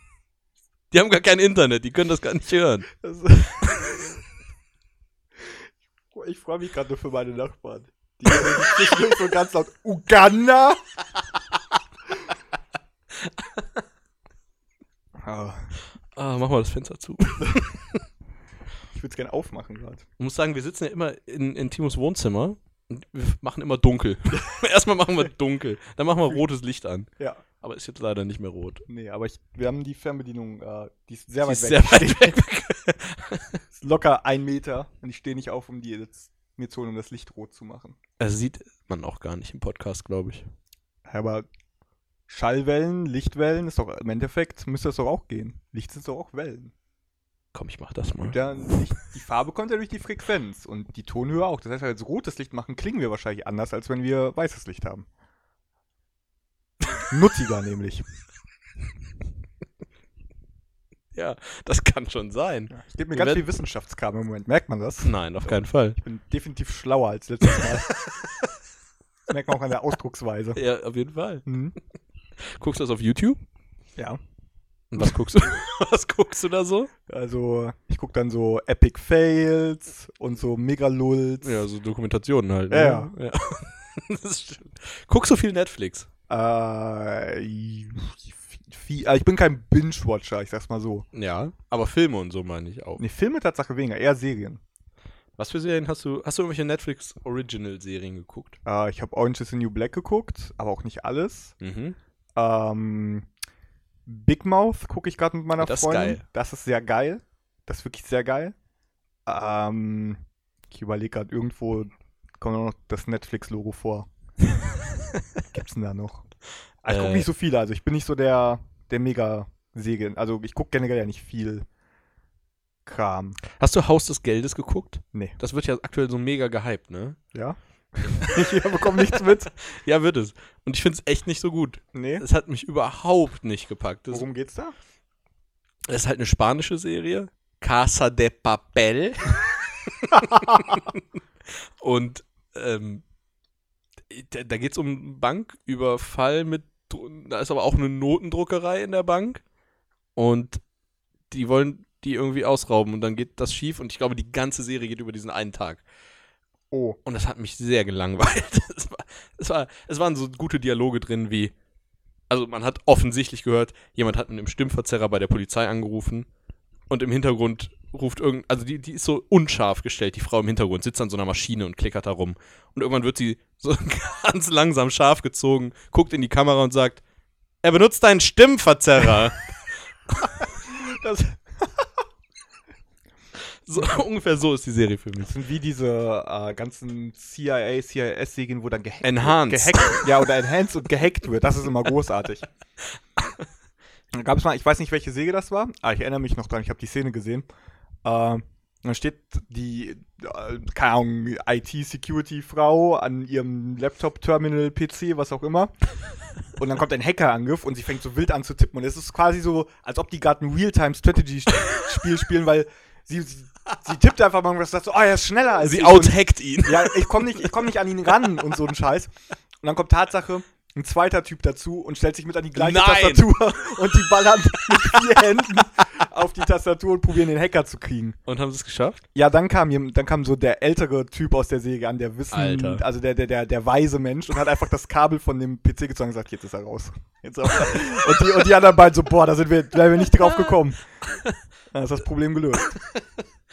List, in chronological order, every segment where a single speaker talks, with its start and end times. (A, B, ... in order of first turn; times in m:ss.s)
0:00.9-0:02.9 A
0:02.9-0:04.0 B
0:06.1-0:10.8 B
0:13.2-0:13.6 A
0:15.2-0:15.7 B
0:16.2-0:18.0 A
0:18.9-0:20.0 B
0:20.2-0:27.1 A
0:27.6-0:28.9 A
0:28.9-0:32.4 B
0:31.4-0:33.6 A
0:33.8-0:38.0 B
0:38.2-0:40.5 A
0:41.1-0:41.5 B
0:42.3-0:46.7 B
0:47.5-0:48.4 A
0:48.2-0:55.1 B
0:57.1-0:58.0 B
1:01.2-1:03.5 A
1:02.7-1:07.9 B
1:05.0-1:06.0 A
1:09.3-1:10.6 B
1:10.6-1:11.5 A
1:11.5-1:11.8 B
1:12.4-1:13.4 A
1:14.9-1:16.9 A
1:17.1-1:21.6 B
1:21.4-1:26.1 A
1:22.7-1:23.1 B
1:26.3-1:31.1 B
1:31.1-1:33.0 A
1:33.0-1:34.6 B
1:35.4-1:38.6 A
1:38.6-1:41.6 B
1:41.6-1:42.0 A
1:42.4-1:43.3 B
1:44.1-1:48.6 B
1:45.6-1:46.2 A
1:49.3-1:54.1 B
1:55.5-1:56.3 B
1:56.8-2:01.6 B
1:56.9-1:57.3 A
2:02.9-2:03.4 B
2:03.6-2:07.2 A
2:07.3-2:09.5 B
2:08.1-2:14.3 A
2:11.9-2:12.2 B
2:14.1-2:14.7 B
2:15.9-2:21.0 A
2:21.8-2:23.0 A
2:24.1-2:29.4 A
2:30.2-2:30.6 A
2:31.3-2:35.8 A
2:36.7-2:37.0 B
2:37.0-2:41.5 A
2:42.3-2:46.3 A
2:46.9-2:57.0 A
2:57.6-2:59.5 A
3:00.6-3:01.8 B
3:03.7-3:05.3 A
3:05.2-3:12.4 B
3:09.0-3:10.1 A
3:13.2-3:13.4 A
3:14.1-3:17.5 B
3:18.0-3:25.7 B
3:26.6-3:39.1 B
3:35.6-3:37.5 A
3:39.6-3:48.2 B
3:42.6-3:43.4 A
3:48.3-3:49.0 A
3:49.2-4:00.8 B
3:52.3-3:52.8 A
4:00.2-4:00.5 A
4:01.7-4:02.8 B
4:02.9-4:03.2 A